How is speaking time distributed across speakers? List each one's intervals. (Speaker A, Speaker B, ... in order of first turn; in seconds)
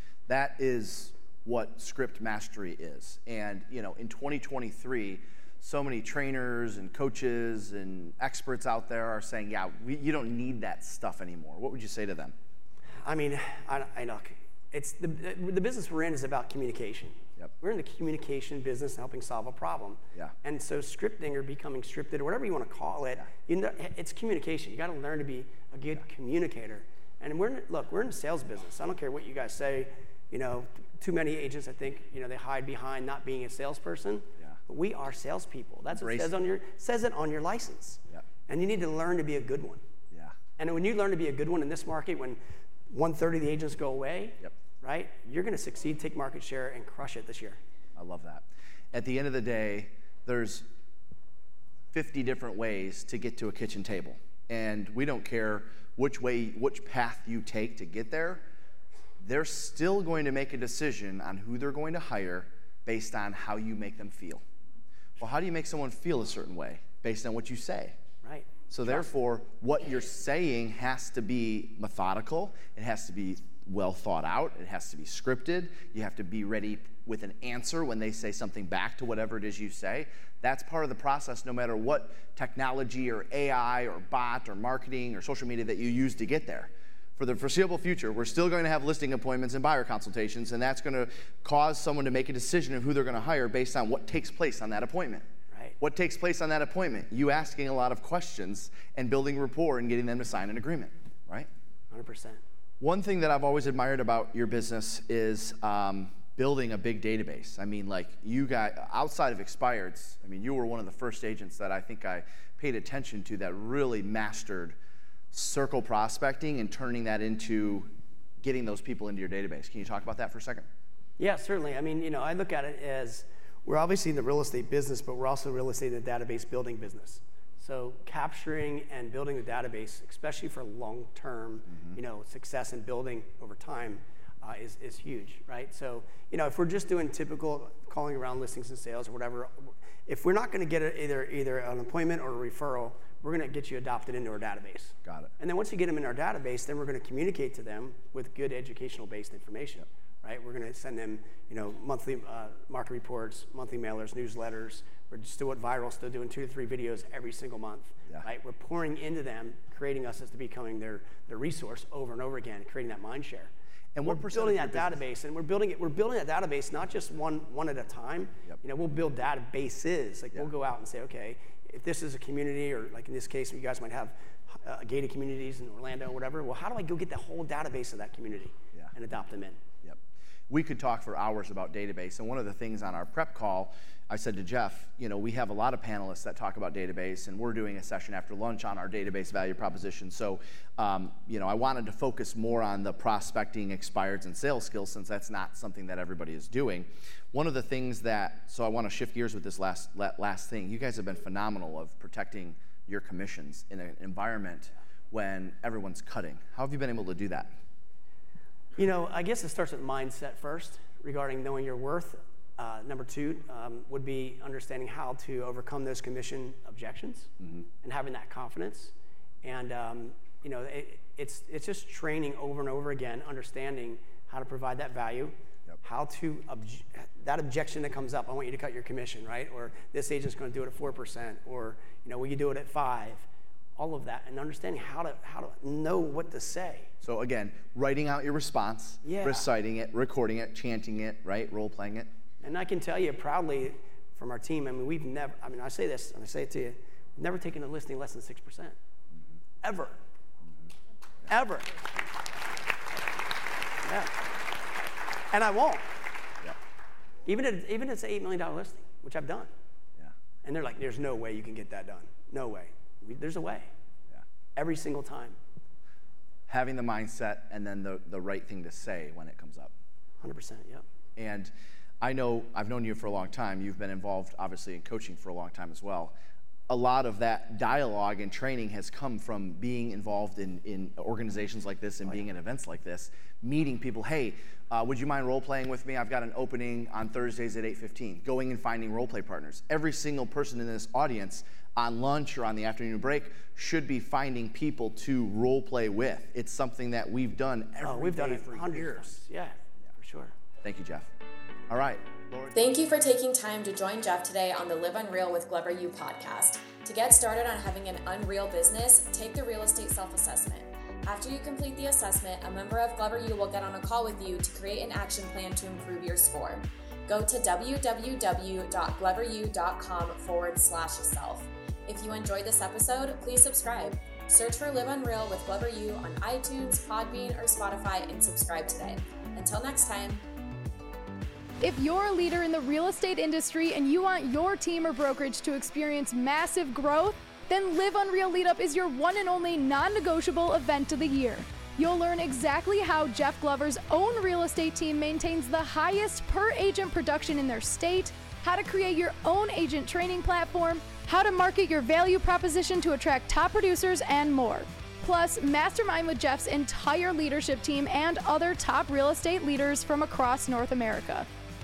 Speaker A: 0.3-12.3, 35.9-36.3, 48.0-50.6, 51.9-58.4, 59.2-64.4, 65.2-68.0, 68.7-95.2, 95.8-101.5, 102.8-114.8, 115.3-117.9, 118.4-120.7, 145.1-145.3, 163.9-165.0, 180.5-207.6, 237.0-242.1, 266.5-269.7, 271.2-276.1, 276.7-299.2, 300.6-301.1, 301.7-302.6
Speaker B: 13.0-39.8, 40.6-47.6, 68.2-69.1, 101.9-102.4, 121.2-163.5, 164.1-179.6, 208.8-217.3, 217.8-233.3, 233.8-236.9, 239.0-239.5, 242.4-248.8, 249.6-250.0, 251.3-251.7, 253.8-254.1, 255.3-255.8, 257.3-259.5, 260.4-263.7, 264.6-265.4, 270.2-270.8, 297.8-300.3
Speaker C: 302.5-330.2
Speaker D: 331.6-361.3